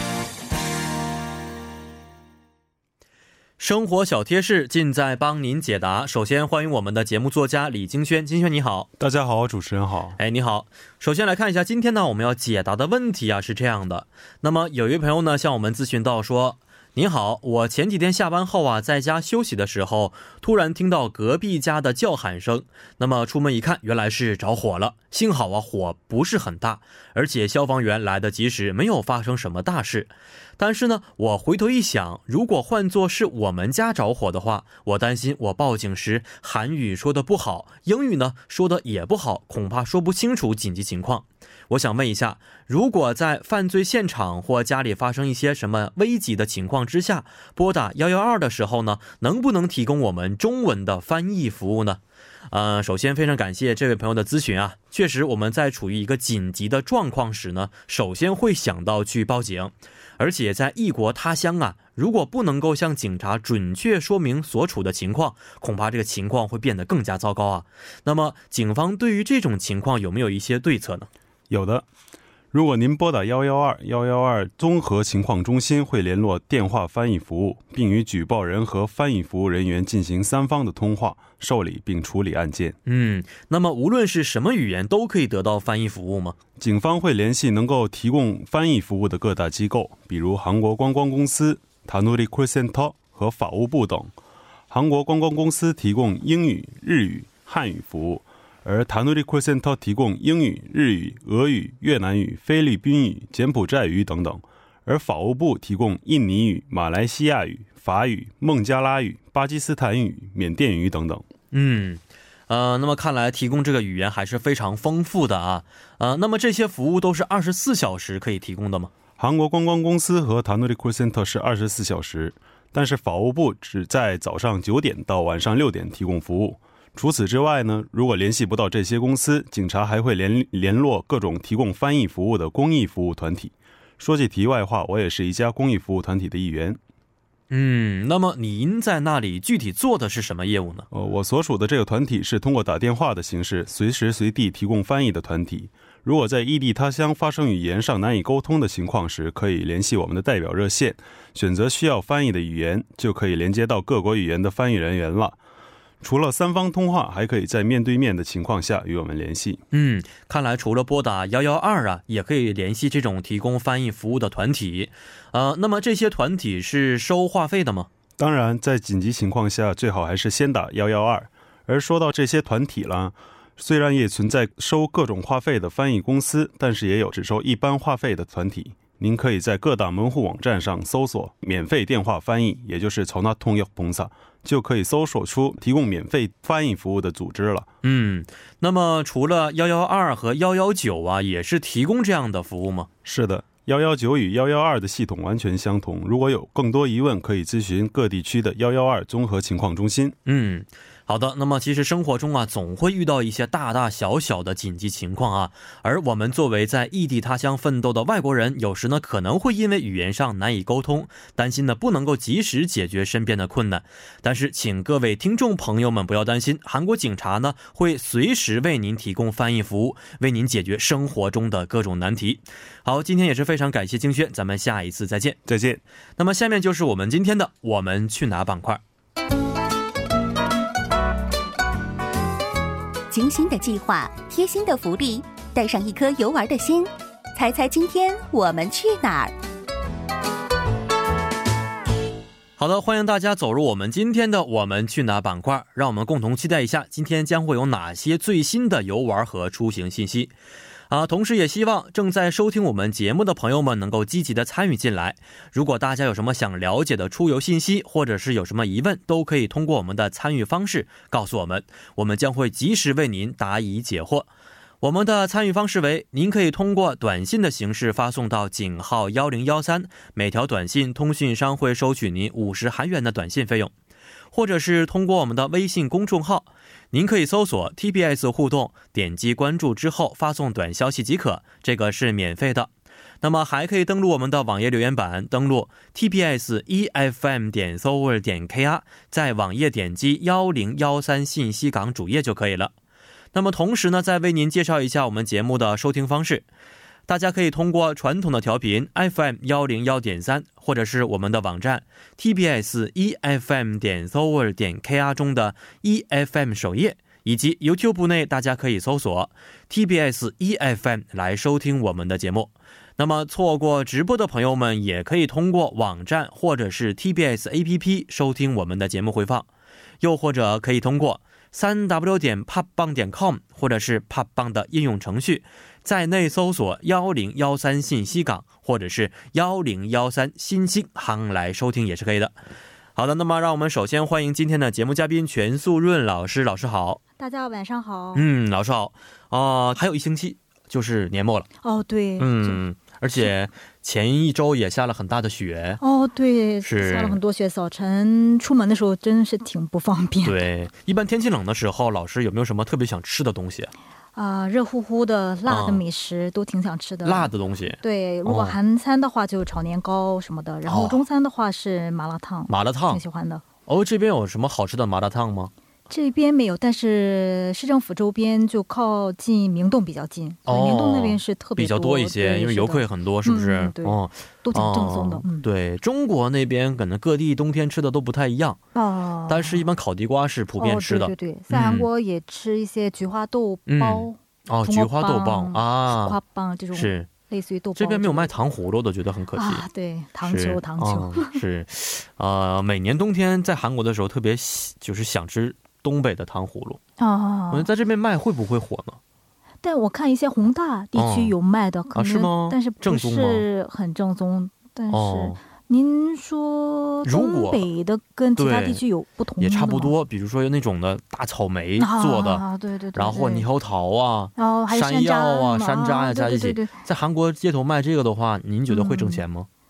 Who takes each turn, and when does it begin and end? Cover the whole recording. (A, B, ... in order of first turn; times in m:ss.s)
0:03.6-0:08.9 A
0:09.0-0:10.2 B
0:10.2-1:11.1 A
1:11.5-1:11.9 B
1:12.5-1:22.8 B
1:22.9-1:26.4 A
1:26.6-1:34.1 B
1:34.7-1:51.3 B
1:51.5-1:58.9 A
1:59.2-2:16.8 B
2:17.5-2:20.9 A
2:20.9-2:35.4 B
2:36.0-2:39.6 B
2:39.7-2:47.9 A
2:48.2-3:07.7 B
3:07.8-3:12.9 A
3:13.0-3:20.2 B
3:20.3-3:45.4 A
3:45.5-3:45.8 B
3:46.2-3:48.8 A
3:53.1-3:59.4 C
4:02.6-4:10.3 A
4:10.9-4:24.3 A
4:24.8-4:33.7 A
4:34.3-4:42.7 A
4:43.2-4:52.7 A
4:53.3-4:56.5 A
4:57.1-5:19.5 A
5:20.0-5:32.3 A
5:33.0-5:37.0 A
5:37.2-5:38.2 D
5:38.1-5:41.5 A
5:41.6-5:42.6 D
5:42.2-5:45.8 A
5:45.8-5:50.4 D
5:46.6-5:47.2 A
5:50.2-5:53.7 A
5:54.2-5:57.3 D
5:55.5-5:55.8 A
5:57.0-5:58.6 A
5:57.8-6:03.4 D
6:00.7-6:01.0 A
6:02.5-6:03.0 A
6:03.7-6:05.5 A
6:05.9-6:15.5 D
6:10.5-6:18.6 A
6:18.8-6:19.6 D
6:19.3-6:21.9 A
6:20.6-6:28.3 D
6:23.7-6:26.2 A
6:26.7-6:27.1 A
6:27.8-6:29.6 A
6:29.3-6:31.4 D
6:30.2-6:36.8 A
6:37.0-6:37.7 D
6:37.5-6:39.0 A
6:39.6-6:49.9 D
6:41.0-6:41.4 A
6:41.9-6:43.4 A
6:44.9-6:45.4 A
6:47.0-6:47.7 A
6:48.4-6:48.8 A
6:49.4-6:59.5 A
6:51.8-6:53.5 D
6:54.4-6:56.7 D
6:58.7-6:59.2 D